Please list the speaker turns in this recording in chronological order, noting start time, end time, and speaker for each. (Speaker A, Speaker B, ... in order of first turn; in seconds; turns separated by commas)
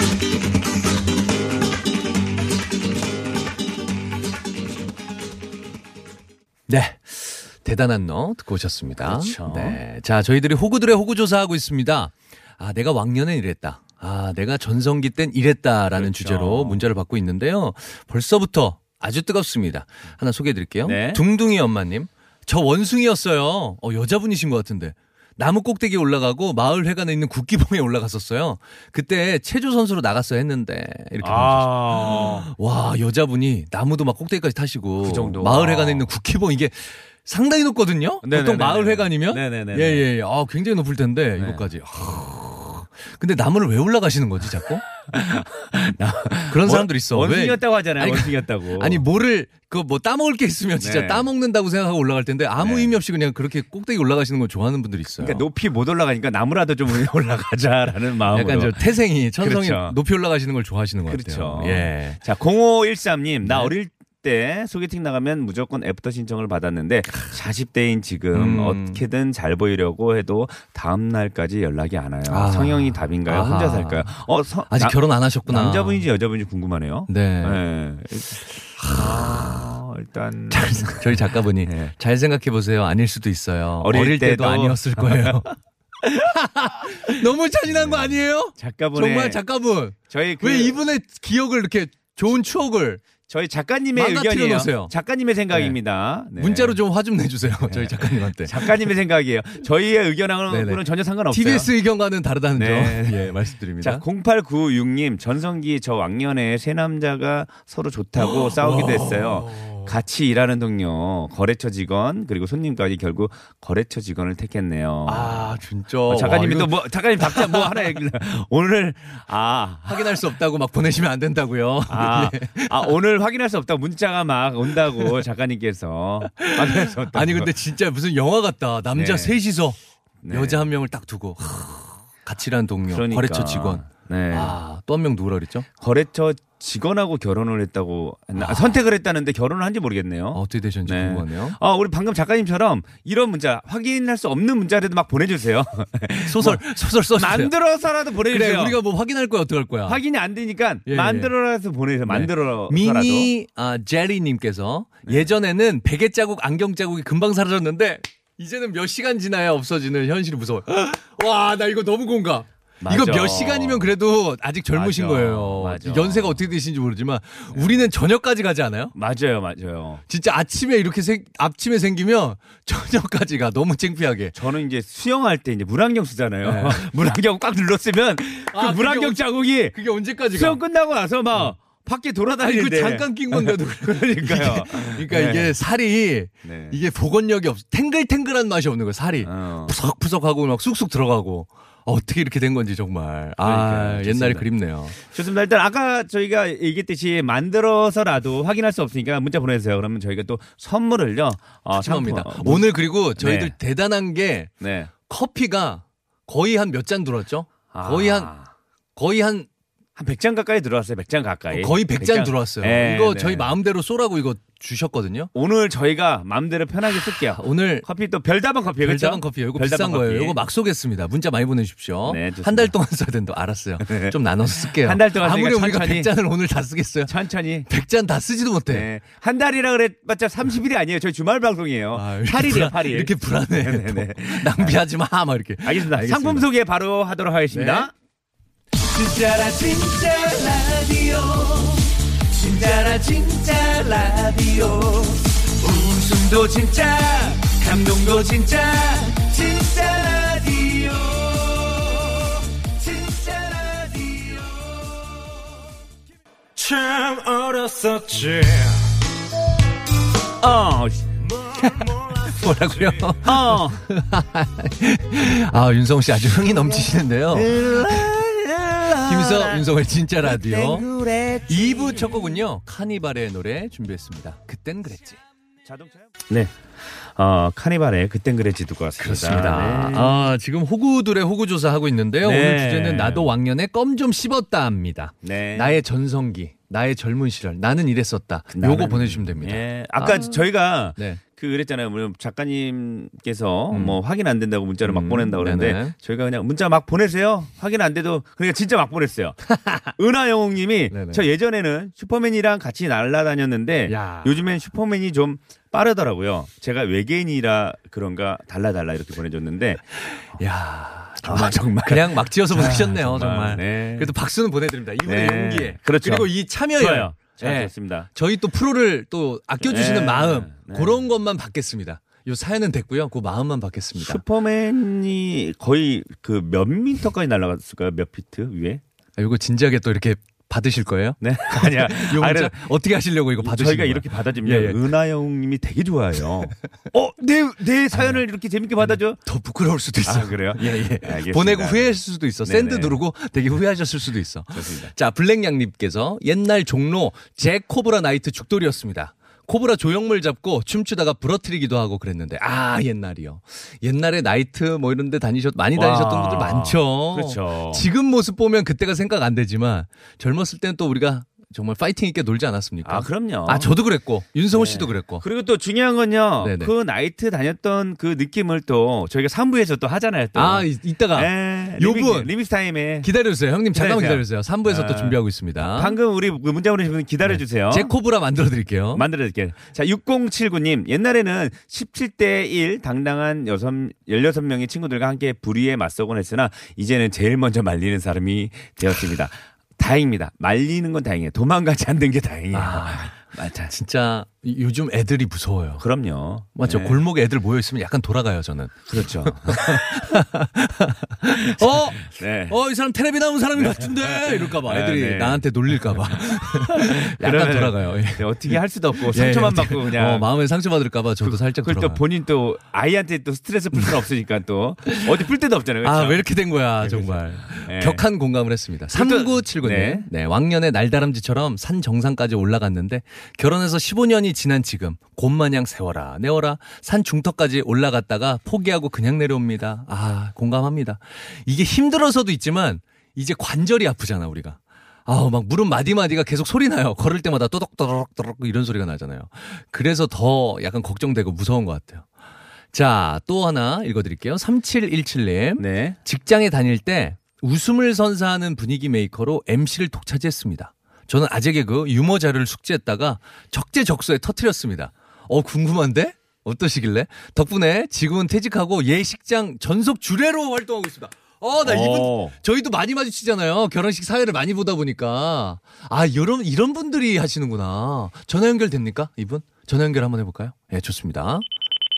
Speaker A: 6.7-44.9, Speaker B: 9.0-9.8, Speaker B: 15.9-16.8, Speaker B: 20.8-21.2, Speaker B: 31.2-32.5, Speaker B: 35.0-36.1, Speaker B: 38.2-40.0, Speaker B: 41.4-41.6, Speaker B: 45.1-49.0, Speaker A: 46.5-55.4, Speaker B: 50.8-51.3, Speaker B: 52.6-52.9, Speaker B: 55.2-60.0, Speaker A: 58.3-62.2, Speaker B: 61.1-81.9, Speaker A: 63.4-63.7, Speaker A: 68.3-69.0, Speaker A: 72.3-74.1, Speaker A: 74.7-76.0, Speaker A: 77.1-77.6, Speaker A: 78.8-79.6, Speaker A: 80.5-93.0, Speaker B: 83.8-85.5, Speaker B: 87.7-89.4, Speaker B: 90.1-90.8, Speaker B: 93.3-96.8, Speaker A: 94.0-94.9, Speaker A: 95.5-95.8, Speaker A: 96.3-98.9, Speaker B: 97.7-101.7, Speaker A: 100.5-104.0, Speaker B: 102.5-115.5, Speaker A: 108.2-109.9, Speaker A: 115.0-118.0, Speaker B: 116.1-120.2, Speaker A: 119.8-122.9, Speaker B: 121.9-127.5, Speaker A: 124.8-125.2, Speaker A: 126.3-129.8, Speaker B: 128.9-129.4, Speaker B: 130.2-130.7, Speaker A: 130.3-135.7, Speaker B: 132.9-134.6, Speaker B: 135.8-148.8, Speaker A: 138.3-138.8, Speaker A: 140.3-141.6, Speaker A: 146.3-147.5, Speaker A: 148.3-150.0, Speaker B: 149.8-153.3, Speaker A: 150.8-151.3, Speaker A: 152.1-168.9, Speaker B: 162.8-163.9, Speaker B: 164.7-166.5, Speaker B: 167.5-167.8, Speaker B: 168.9-170.0, Speaker A: 170.1-174.3, Speaker B: 174.3-179.8, Speaker A: 176.4-176.9, Speaker A: 178.5-180.6, Speaker B: 180.3-185.5, Speaker A: 182.4-194.9, Speaker B: 186.4-186.8, Speaker B: 189.2-189.7, Speaker B: 193.4-194.5, Speaker B: 195.0-203.5, Speaker A: 201.7-204.5, Speaker B: 204.6-204.9, Speaker A: 205.1-208.3, Speaker B: 207.7-208.5, Speaker A: 208.9-209.5, Speaker B: 209.9-213.5, Speaker A: 211.5-215.3, Speaker B: 215.3-220.4, Speaker A: 217.1-217.8, Speaker A: 218.8-227.1, Speaker B: 222.1-222.7, Speaker B: 223.8-226.1, Speaker B: 227.1-227.7, Speaker A: 227.7-228.9, Speaker B: 228.7-234.8, Speaker A: 231.9-236.5, Speaker B: 235.6-237.9, Speaker A: 237.5-237.9, Speaker B: 238.8-255.3, Speaker C: 256.6-258.8, Speaker B: 260.4-261.1, Speaker A: 261.5-268.2, Speaker B: 263.2-263.8, Speaker B: 267.3-269.7, Speaker A: 268.9-270.9, Speaker B: 270.2-272.3, Speaker A: 271.5-275.2, Speaker B: 275.6-280.2, Speaker A: 279.0-290.4, Speaker B: 282.2-283.3, Speaker B: 285.2-285.8, Speaker B: 288.5-309.9, Speaker A: 290.9-291.2, Speaker A: 293.7-294.0, Speaker A: 294.8-295.9, Speaker A: 299.5-299.9, Speaker A: 300.9-301.2, Speaker A: 303.9-304.4, Speaker A: 310.0-324.2, Speaker B: 311.2-314.1, Speaker B: 315.0-318.1, Speaker B: 319.6-321.0, Speaker B: 324.0-328.8, Speaker A: 329.2-334.8, Speaker B: 331.2-332.7, Speaker B: 333.4-339.2, Speaker A: 337.9-338.2, Speaker A: 338.8-365.2, Speaker B: 340.0-343.0, Speaker B: 344.5-344.9, Speaker B: 355.8-357.9, Speaker B: 362.8-363.7, Speaker B: 364.5-373.1, Speaker A: 366.4-366.7, Speaker A: 370.3-372.3, Speaker A: 373.0-376.0, Speaker B: 373.7-377.9, Speaker A: 377.2-379.1, Speaker B: 378.9-393.7, Speaker A: 392.5-395.8, Speaker B: 395.8-397.0, Speaker A: 396.5-412.0, Speaker B: 398.9-400.2, Speaker B: 401.4-402.6, Speaker B: 403.6-410.3, Speaker B: 411.2-416.2, Speaker A: 414.9-415.1, Speaker A: 415.8-442.1, Speaker B: 416.8-418.0, Speaker B: 418.9-420.1, Speaker A: 442.7-471.4, Speaker B: 445.6-446.0, Speaker B: 461.6-462.3